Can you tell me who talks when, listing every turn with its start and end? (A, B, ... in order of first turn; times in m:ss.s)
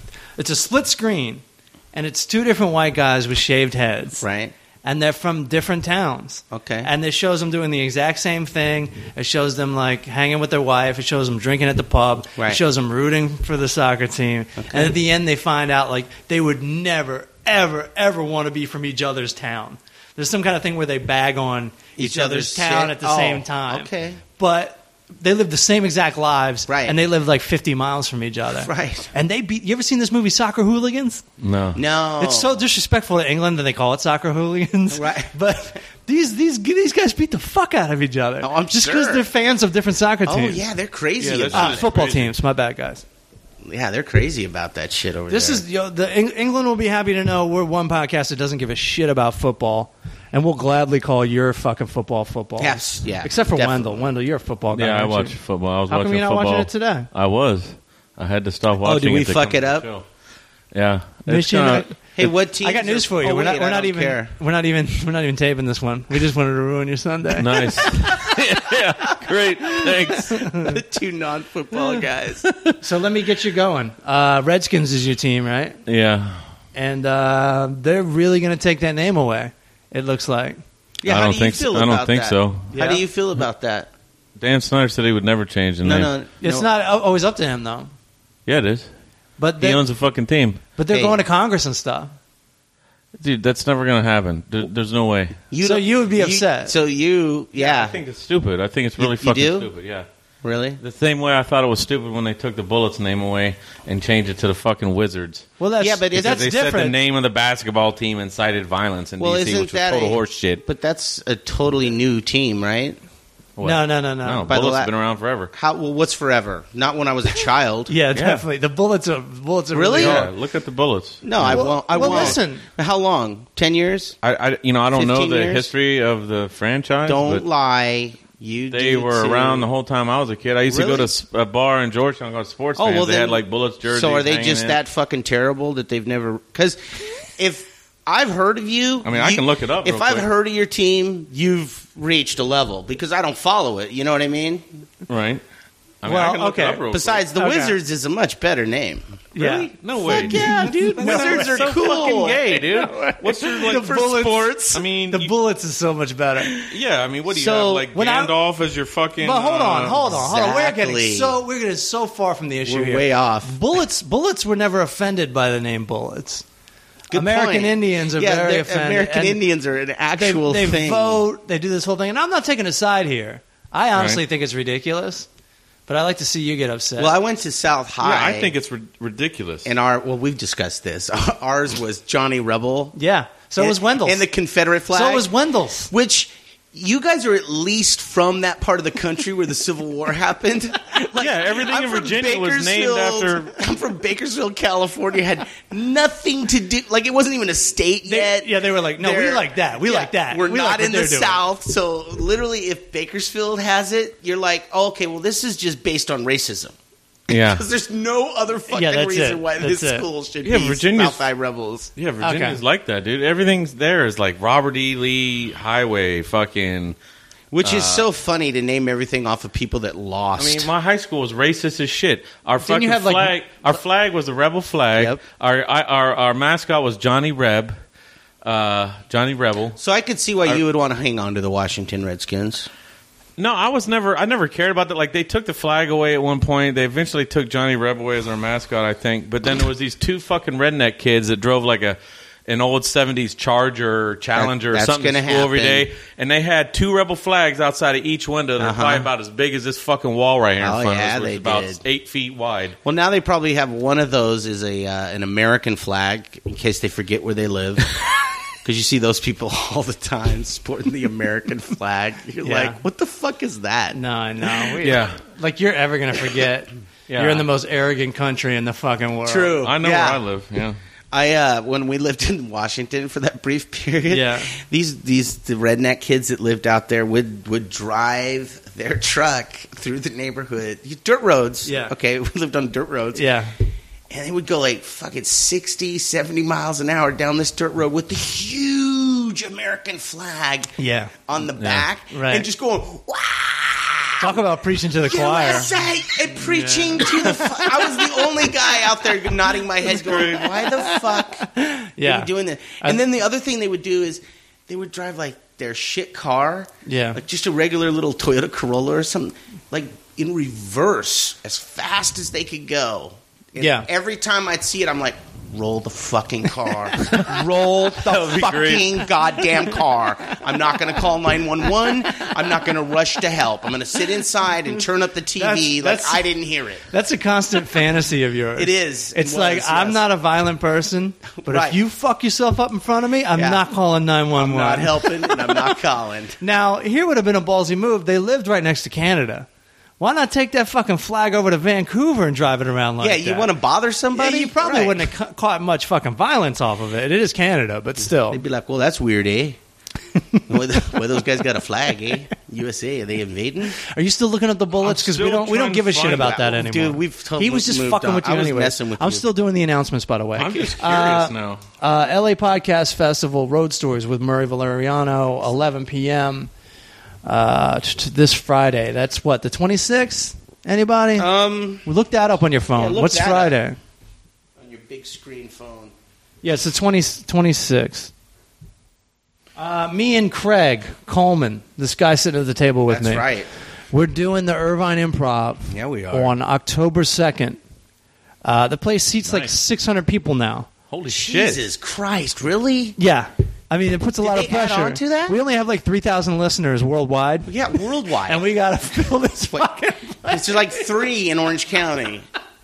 0:00.4-0:04.2 A
0:04.2-0:04.5 B
0:04.8-0:31.2 A
0:06.5-0:06.9 B
0:14.6-0:14.9 B
0:22.0-0:24.2 B
0:26.7-0:27.0 B
0:28.6-0:29.1 B
0:31.4-0:31.8 C
0:31.8-0:32.6 B
0:32.2-0:40.6 A
0:34.9-0:35.8 B
0:38.4-0:39.3 B
0:40.3-0:41.9 B
0:41.2-0:42.3 C
0:41.5-0:43.0 A
0:43.6-0:45.6 B
0:45.3-0:55.4 A
0:52.6-0:54.1 B
0:54.7-1:00.0 C
0:55.9-0:57.1 A
0:58.8-0:59.9 B
1:00.7-1:01.9 C
1:01.3-1:02.1 A
1:02.2-1:04.3 B
1:02.6-1:08.3 A
1:07.4-1:10.5 C
1:10.1-1:10.8 A
1:10.6-1:12.4 B
1:12.4-1:12.8 C
1:12.8-1:15.8 A
1:15.9-1:16.4 C
1:16.7-1:20.6 A
1:21.0-1:23.9 B
1:21.1-1:22.7 C
1:22.8-1:23.0 A
1:24.4-1:26.1 C
1:25.8-1:26.7 B
1:26.4-1:27.9 A
1:28.5-1:28.9 C
1:29.4-1:29.8 A
1:29.6-1:30.6 C
1:30.8-1:32.1 A
1:30.9-1:31.2 B
1:33.2-1:35.4 C
1:35.5-1:38.0 B
1:35.6-1:36.7 A
1:37.6-1:40.1 C
1:39.0-1:39.7 B
1:40.4-1:40.8 B
1:40.8-1:45.5 C
1:45.6-1:47.0 A
1:45.8-1:46.6 B
1:46.2-1:50.6 C
1:49.2-1:53.0 B
1:53.6-1:55.5 C
1:53.6-1:54.5 A
1:54.5-1:54.9 B
1:55.5-1:57.9 B
1:57.9-2:00.3 A
1:58.2-1:58.4 C
1:59.7-2:00.3 B
2:00.0-2:02.4 C
2:01.2-2:04.2 B
2:01.5-2:02.7 A
2:04.2-2:07.4 C
2:04.9-2:05.7 B
2:07.1-2:09.7 B
2:08.7-2:14.8 C
2:10.7-2:11.1 B
2:12.8-2:16.8 B
2:17.4-2:24.7 B
2:19.0-2:20.3 C
2:25.1-2:25.4 C
2:26.0-2:27.2 C
2:26.0-2:27.8 A
2:26.9-2:34.5 B
2:29.4-2:32.2 A
2:29.5-2:35.3 C
2:32.7-2:36.5 A
2:36.4-2:36.7 B
2:36.6-2:40.1 C
2:37.3-2:37.9 B
2:37.9-2:38.3 A
2:39.2-2:46.4 A
2:40.0-2:41.4 B
2:42.7-2:43.6 B
2:47.1-2:51.2 B
2:47.1-2:49.4 A
2:50.2-2:55.3 A
2:54.0-2:54.2 C
2:55.9-2:57.2 A
2:57.0-2:58.5 B
2:58.0-2:59.7 C
2:59.6-3:03.0 B
3:03.0-3:04.2 A
3:03.6-3:05.3 B
3:04.9-3:05.9 A
3:05.9-3:26.8 B
3:11.1-3:13.5 C
3:18.1-3:21.4 A
3:27.3-3:31.9 B
3:27.3-3:27.6 C
3:28.7-3:30.1 A
3:30.4-3:31.3 C
3:32.0-3:37.0 C
3:32.2-3:32.6 A
3:37.5-3:40.7 B
3:37.6-3:38.0 C
3:40.4-3:47.8 C
3:42.6-3:43.4 A
3:48.4-3:49.8 C
3:49.8-3:52.7 B
3:53.4-4:12.8 C
4:04.4-4:05.9 B
4:08.6-4:09.1 B
4:10.6-4:11.8 B
4:12.8-4:17.9 B
4:18.6-4:24.0 B
4:22.4-4:22.8 A
4:23.9-4:29.6 A
4:24.8-4:25.2 C
4:27.1-4:27.5 C
4:29.2-4:30.2 B
4:29.6-4:30.8 C
4:31.1-4:43.3 B
4:34.1-4:34.5 A
4:41.6-4:41.9 A
4:43.1-4:43.5 A
4:44.1-4:54.4 B
4:50.8-4:51.1 A
4:51.6-4:51.9 C
4:52.1-4:52.5 A
4:54.2-4:55.7 A
4:55.0-5:01.5 B
4:56.4-4:58.2 A
5:00.0-5:00.5 C
5:00.1-5:03.0 A
5:02.0-5:26.8 B
5:06.8-5:07.2 A
5:13.6-5:13.9 A
5:17.1-5:17.4 C
5:17.9-5:19.0 C
5:25.4-5:26.3 A
5:26.9-5:35.8 A
5:28.6-5:30.0 B
5:31.4-5:31.8 B
5:33.3-5:33.6 B
5:34.4-5:36.4 B
5:36.4-5:39.5 A
5:40.0-5:43.5 A
5:43.0-5:45.1 B
5:44.1-5:48.4 A
5:48.3-5:49.6 B
5:50.5-5:53.8 B
5:53.8-6:06.5 A
5:54.8-5:56.4 C
5:56.1-5:59.3 B
6:00.4-6:01.6 C
6:07.2-6:11.3 A
6:11.2-6:11.9 B
6:11.8-6:13.8 A
6:12.8-6:13.6 B
6:14.6-6:15.9 B
6:16.4-6:18.1 A
6:19.6-6:23.3 A
6:22.9-6:23.5 B
6:23.9-6:27.6 A
6:25.7-6:26.3 B
6:28.4-6:30.7 A
6:30.9-6:31.6 C
6:31.1-6:33.0 B
6:33.0-6:37.6 A
6:34.2-6:35.4 B
6:37.5-6:38.4 B
6:38.2-6:40.9 A
6:40.3-6:42.3 B